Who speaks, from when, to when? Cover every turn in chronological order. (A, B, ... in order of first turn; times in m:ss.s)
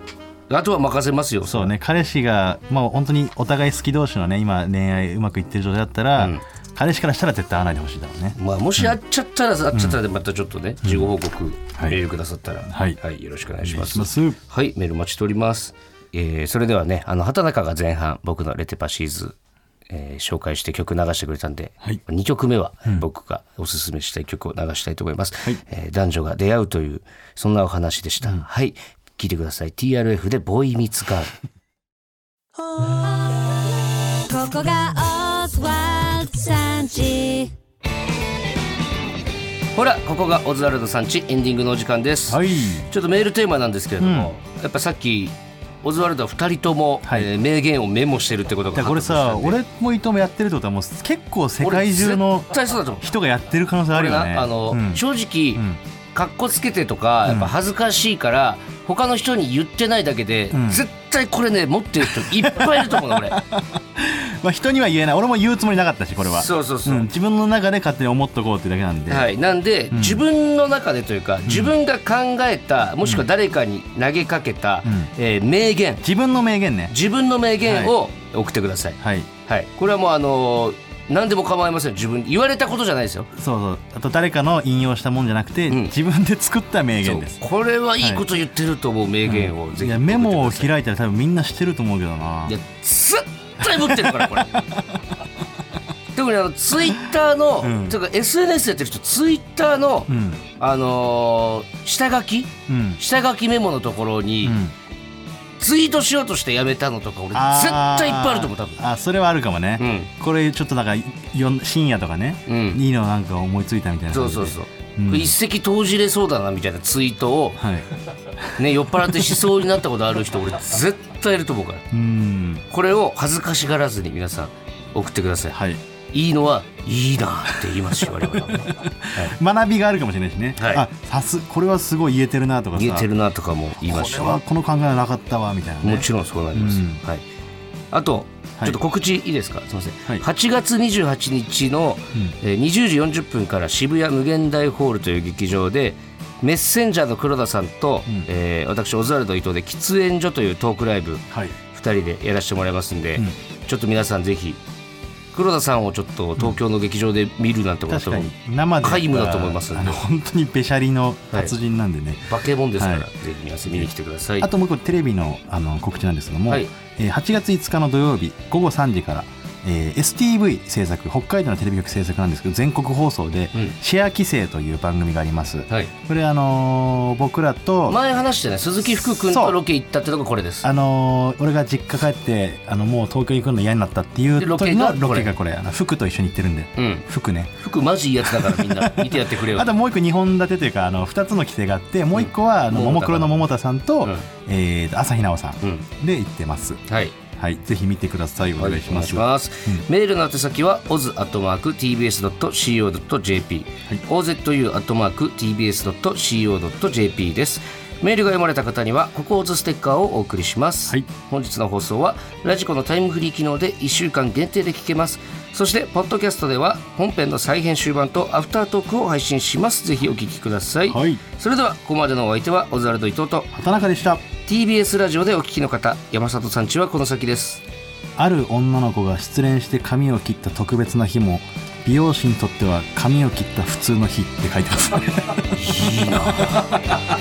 0:00.5-0:01.7 A
0:01.4-0:09.0 B
0:06.2-0:06.4 A
0:08.4-0:19.4 A
0:09.7-0:10.0 B
0:10.8-0:11.1 B
0:11.8-0:12.0 B
0:12.7-0:13.0 B
0:13.6-0:14.4 B
0:19.9-0:31.3 A
0:32.8-0:33.6 C
0:34.1-0:37.5 C
0:39.8-0:49.6 A
0:42.3-0:42.9 B
0:44.0-0:44.3 B
0:47.0-0:47.3 B
0:48.8-0:55.0 B
0:51.6-0:53.1 A
0:53.9-1:03.4 A
0:57.3-0:57.5 B
1:00.5-1:00.8 B
1:02.0-1:09.3 B
1:06.3-1:07.1 A
1:09.1-1:16.0 A
1:09.9-1:10.2 B
1:11.4-1:11.8 B
1:14.8-1:15.1 B
1:16.0-1:16.9 B
1:16.9-1:23.3 A
1:17.6-1:17.9 B
1:19.0-1:19.3 B
1:23.4-1:27.4 B
1:27.0-1:30.7 A
1:28.0-1:28.2 B
1:29.3-1:32.6 B
1:32.4-1:34.6 A
1:33.6-1:35.2 B
1:36.1-1:44.6 A
1:37.6-1:38.0 B
1:40.1-1:40.4 B
1:42.7-1:43.0 B
1:44.4-1:44.7 B
1:45.6-1:48.8 A
1:47.3-1:55.4 B
1:49.8-1:50.1 A
1:52.5-1:52.8 A
1:54.1-1:57.6 A
1:57.6-1:57.9 B
1:58.6-2:01.9 A
2:01.9-2:02.7 B
2:02.7-2:05.6 A
2:05.5-2:05.8 B
2:06.1-2:09.4 A
2:08.1-2:13.1 B
2:10.6-2:10.9 A
2:12.8-2:14.4 A
2:13.8-2:17.0 B
2:15.8-2:17.2 A
2:17.9-2:34.6 A
2:31.3-2:31.6 B
2:35.3-2:38.3 A
2:37.9-2:43.1 B
2:38.8-2:40.0 A
2:42.3-2:44.5 A
2:44.4-2:58.0 B
2:57.9-3:00.7 A
2:59.1-2:59.6 B
3:00.6-3:07.6 B
3:04.4-3:05.3 A
3:06.8-3:07.1 A
3:07.6-3:09.7 A
3:08.2-3:16.8 B
3:12.1-3:13.4 A
3:16.9-3:17.1 A
3:17.3-3:19.8 B
3:18.6-3:43.5 A
3:40.9-3:41.2 B
3:43.5-3:44.2 B
3:44.4-3:47.6 A
3:48.2-3:55.6 B
3:55.5-3:56.8 A